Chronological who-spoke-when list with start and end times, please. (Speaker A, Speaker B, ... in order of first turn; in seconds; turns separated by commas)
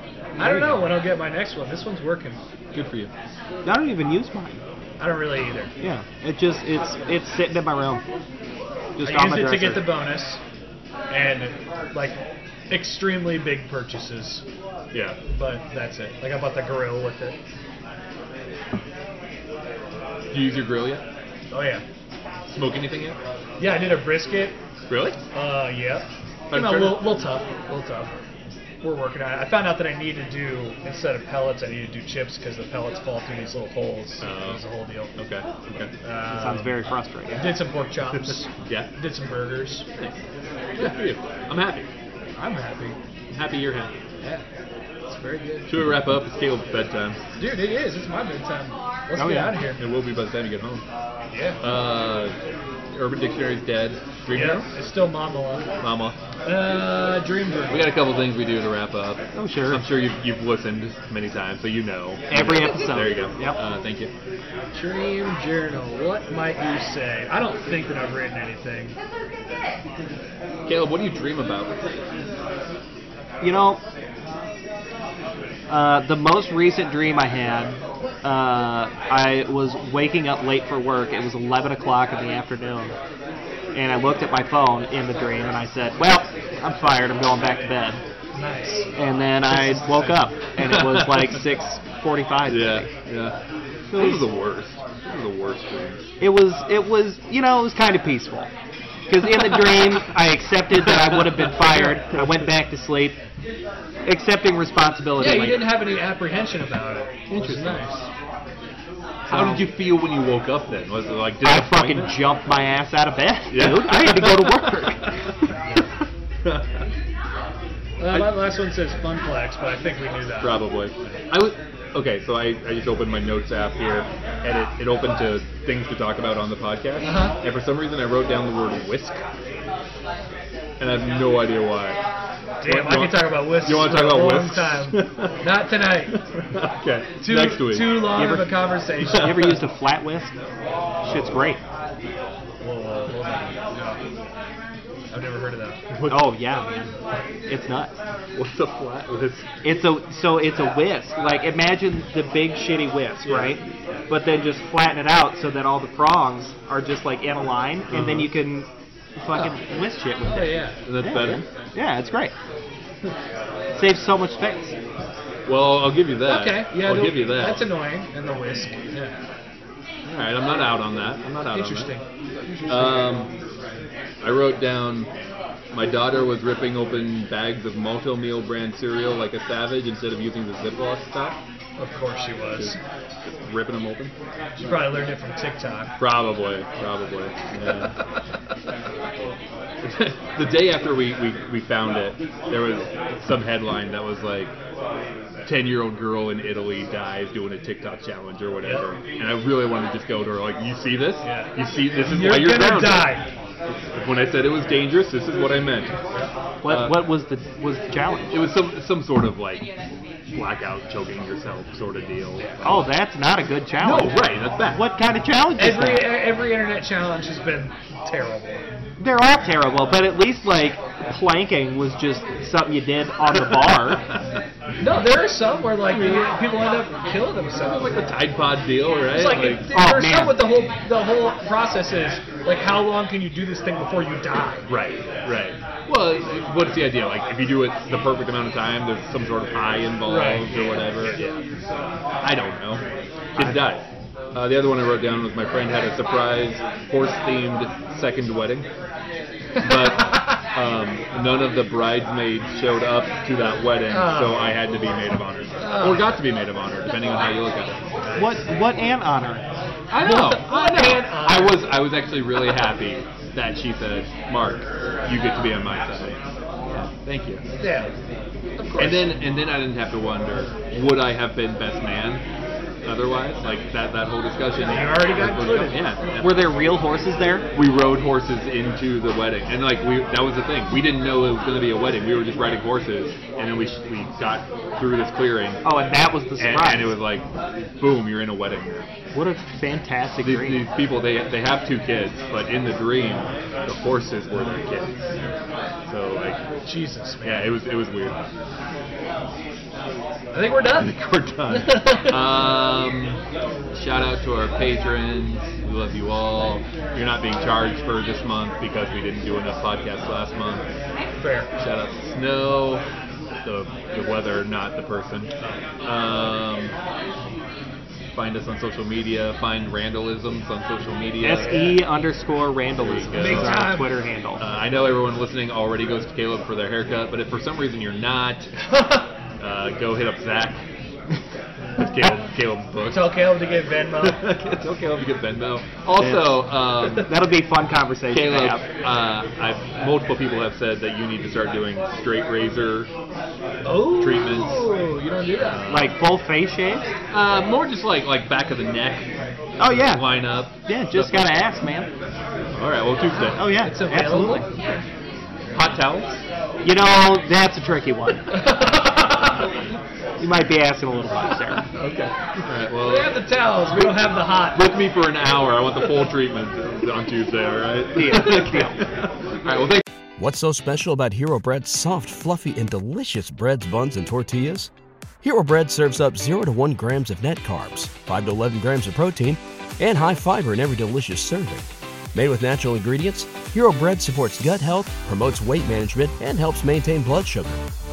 Speaker A: 0.4-2.4, Speaker B: 0.4-0.8, Speaker C: 2.7-3.1, Speaker B: 3.6-4.6, Speaker A: 5.0-5.7, Speaker B: 5.8-8.0, Speaker B: 9.0-9.9, Speaker A: 9.0-10.4, Speaker A: 11.1-12.2, Speaker A: 12.7-14.4, Speaker C: 14.9-15.2, Speaker A: 15.3-17.4, Speaker C: 20.3-21.0, Speaker A: 21.5-21.8, Speaker C: 22.5-23.2, Speaker A: 23.6-24.6, Speaker C: 24.9-25.2, Speaker A: 25.3-28.1, Speaker C: 26.5-27.2, Speaker A: 28.8-35.1, Speaker C: 34.2-34.6, Speaker C: 35.1-35.9, Speaker A: 36.0-36.8, Speaker B: 36.3-37.6, Speaker A: 37.3-39.9, Speaker C: 38.7-38.9, Speaker C: 40.8-41.9, Speaker A: 42.4-43.0, Speaker C: 43.3-43.9, Speaker A: 45.1-45.7, Speaker C: 45.7-47.2, Speaker A: 47.4-49.8, Speaker B: 49.2-49.5, Speaker C: 49.8-50.8, Speaker A: 51.3-51.6, Speaker C: 51.6-52.4, Speaker C: 52.9-54.7, Speaker A: 54.3-55.7, Speaker C: 55.8-56.2, Speaker A: 56.4-57.9, Speaker C: 57.7-64.1, Speaker B: 59.4-59.8, Speaker B: 62.3-63.6, Speaker A: 64.7-69.0, Speaker C: 70.7-71.7, Speaker B: 73.4-73.8, Speaker B: 75.7-83.0, Speaker B: 83.7-88.0, Speaker A: 88.3-88.9, Speaker B: 89.0-92.9, Speaker C: 89.6-91.4, Speaker C: 92.5-93.4, Speaker C: 93.9-96.0, Speaker B: 93.9-94.3, Speaker B: 96.2-98.5, Speaker B: 99.1-103.2, Speaker C: 100.9-102.5, Speaker B: 104.0-105.7, Speaker A: 105.2-108.1, Speaker C: 107.3-107.8, Speaker C: 109.3-112.1, Speaker B: 109.3-109.6, Speaker B: 111.4-115.2, Speaker C: 113.5-114.8, Speaker A: 118.0-120.7, Speaker C: 120.4-129.2, Speaker A: 127.0-127.4, Speaker C: 130.8-132.0, Speaker A: 132.6-136.2, Speaker C: 132.6-135.5, Speaker C: 136.1-138.2, Speaker A: 137.2-139.4, Speaker B: 138.2-138.6, Speaker B: 139.2-140.3, Speaker B: 141.0-141.6, Speaker A: 142.6-143.6, Speaker A: 145.1-145.8, Speaker C: 145.9-146.4, Speaker B: 146.1-146.9, Speaker B: 147.5-148.0, Speaker C: 148.3-149.5, Speaker B: 149.6-162.3, Speaker A: 153.2-153.6, Speaker C: 157.9-158.3, Speaker A: 160.3-160.8, Speaker C: 160.8-161.4, Speaker B: 163.7-164.8, Speaker C: 165.5-167.7, Speaker A: 166.3-169.2, Speaker C: 170.1-171.9, Speaker A: 171.5-173.3, Speaker C: 172.7-173.3, Speaker C: 174.2-175.1, Speaker C: 175.7-181.4, Speaker A: 181.8-182.8, Speaker C: 182.6-184.1, Speaker A: 184.6-186.0, Speaker C: 186.0-188.0, Speaker C: 189.8-194.5, Speaker C: 195.5-203.2, Speaker A: 201.2-203.3, Speaker C: 203.8-205.9, Speaker B: 206.6-208.4, Speaker C: 206.7-207.0, Speaker C: 208.3-209.7, Speaker C: 210.3-212.9, Speaker B: 212.6-216.1, Speaker C: 213.8-214.8, Speaker A: 215.6-218.7, Speaker B: 219.0-224.1, Speaker A: 224.8-228.0, Speaker C: 225.9-226.3, Speaker C: 227.6-229.7, Speaker A: 229.1-234.7, Speaker B: 229.7-230.4, Speaker C: 234.7-241.3, Speaker A: 240.0-241.4, Speaker C: 242.2-248.7, Speaker C: 249.6-257.8, Speaker A: 249.6-250.2, Speaker A: 253.9-254.6, Speaker A: 255.6-256.1, Speaker A: 258.0-258.3, Speaker B: 258.2-259.4, Speaker C: 259.9-266.2, Speaker A: 260.0-261.7, Speaker C: 266.7-267.4, Speaker A: 267.6-267.9, Speaker A: 268.6-269.1, Speaker C: 268.8-272.2, Speaker C: 272.8-276.4, Speaker A: 274.6-275.8, Speaker B: 276.2-277.5, Speaker C: 277.5-285.6, Speaker B: 285.6-287.0, Speaker C: 286.4-287.2, Speaker C: 287.8-288.8, Speaker B: 289.1-290.6, Speaker C: 290.2-295.0, Speaker C: 295.9-296.4, Speaker A: 296.6-297.5, Speaker C: 297.2-298.2, Speaker A: 300.3-302.3, Speaker C: 300.8-303.2, Speaker C: 303.7-310.6, Speaker A: 311.2-311.5, Speaker C: 311.6-312.8, Speaker C: 313.4-315.3, Speaker C: 315.8-316.7, Speaker C: 318.1-321.6, Speaker B: 321.2-324.4, Speaker A: 321.4-321.8, Speaker C: 322.8-323.7, Speaker A: 323.1-323.9, Speaker C: 324.4-328.5, Speaker A: 328.7-329.0, Speaker C: 329.4-330.6, Speaker C: 331.8-333.1, Speaker A: 332.9-334.4, Speaker C: 334.0-337.2, Speaker B: 336.0-338.6, Speaker C: 338.1-342.9, Speaker A: 343.6-345.8, Speaker C: 343.9-344.7, Speaker C: 345.4-346.0, Speaker B: 345.7-346.9, Speaker C: 347.1-349.1, Speaker B: 349.6-350.1, Speaker C: 349.6-351.3, Speaker B: 350.7-351.9, Speaker C: 352.5-353.5, Speaker B: 353.4-354.5, Speaker A: 353.6-354.6, Speaker C: 355.5-356.2, Speaker B: 356.6-358.3, Speaker A: 358.3-359.1, Speaker B: 360.2-361.7, Speaker C: 361.7-363.2, Speaker A: 362.8-364.7, Speaker C: 363.7-368.9, Speaker B: 367.9-368.8, Speaker C: 369.4-369.8, Speaker D: 370.2-374.7, Speaker D: 375.2-387.6